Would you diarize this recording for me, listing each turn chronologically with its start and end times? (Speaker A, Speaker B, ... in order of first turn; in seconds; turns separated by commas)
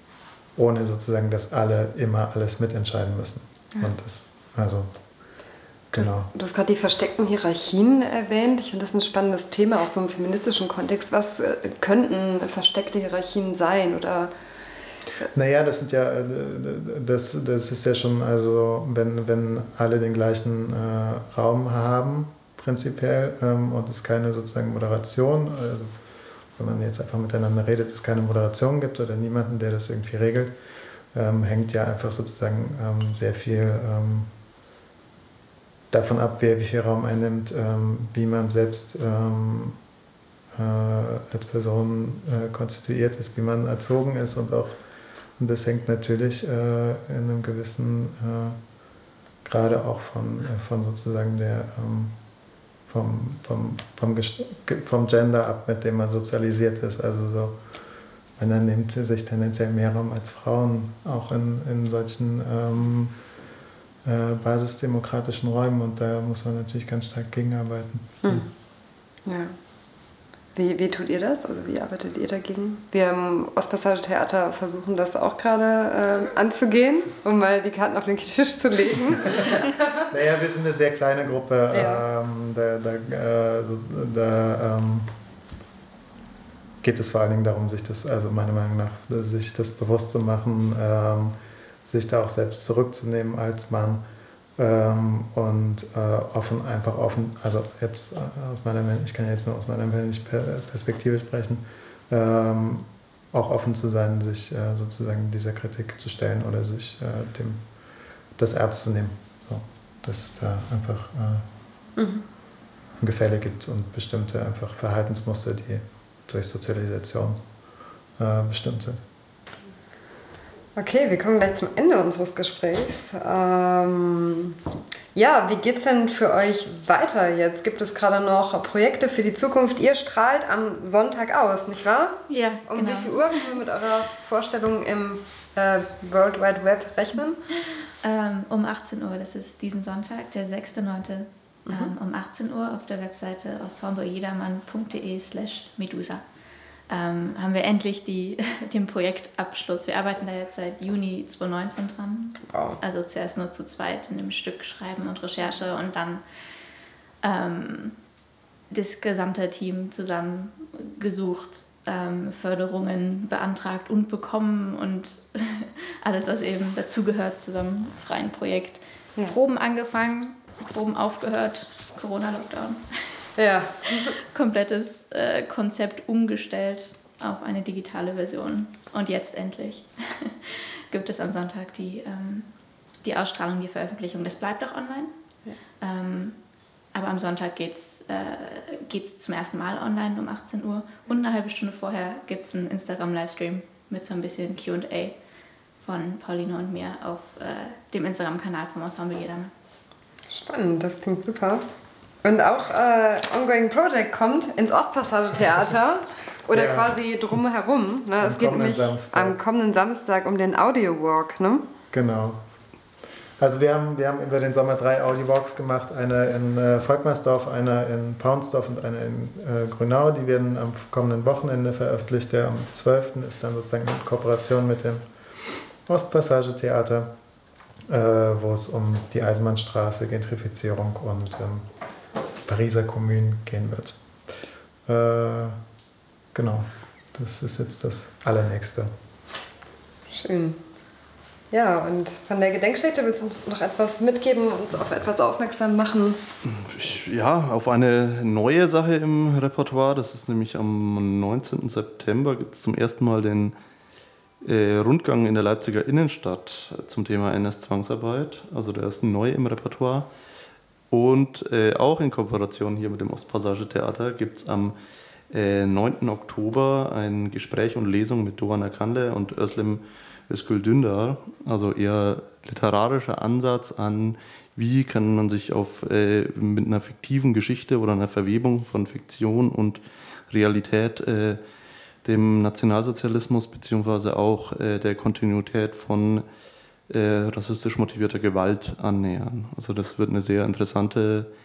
Speaker A: 0.5-4.9, Speaker A: 5.9-6.3, Speaker B: 6.0-14.3, Speaker A: 15.3-25.9, Speaker A: 26.5-30.6, Speaker A: 31.1-34.3, Speaker A: 35.9-39.8, Speaker A: 40.5-44.8, Speaker A: 45.4-48.6, Speaker A: 49.4-52.2, Speaker A: 52.9-57.6, Speaker A: 58.4-63.2, Speaker A: 64.0-68.4, Speaker B: 68.2-68.5, Speaker B: 69.2-69.5, Speaker B: 70.5-80.0, Speaker A: 80.1-85.1, Speaker B: 81.7-82.0, Speaker A: 86.8-94.0, Speaker A: 94.6-107.7, Speaker A: 108.3-111.5, Speaker B: 112.0-112.2, Speaker A: 113.0-117.4, Speaker A: 118.2-119.0, Speaker B: 120.8-124.6, Speaker B: 125.1-137.4, Speaker C: 132.3-133.6, Speaker C: 138.0-146.2, Speaker C: 146.9-156.2, Speaker B: 152.5-152.8, Speaker C: 157.2-158.0, Speaker C: 158.7-173.3, Speaker B: 173.3-174.1, Speaker C: 173.9-182.5, Speaker C: 183.0-185.1, Speaker C: 185.8-186.4, Speaker C: 186.9-195.2, Speaker C: 195.8-199.5, Speaker B: 200.3-201.6, Speaker B: 202.2-211.7, Speaker A: 206.5-207.0, Speaker A: 208.2-209.4, Speaker A: 211.9-212.4, Speaker A: 213.4-225.0, Speaker A: 225.8-227.1, Speaker A: 227.9-231.7, Speaker A: 232.4-234.0, Speaker A: 234.8-235.6, Speaker A: 236.3-238.9, Speaker B: 240.1-240.6, Speaker B: 241.5-246.2, Speaker D: 246.4-253.5, Speaker D: 254.4-260.1, Speaker D: 260.9-264.8, Speaker D: 265.3-281.4, Speaker D: 282.0-286.2, Speaker D: 286.9-291.3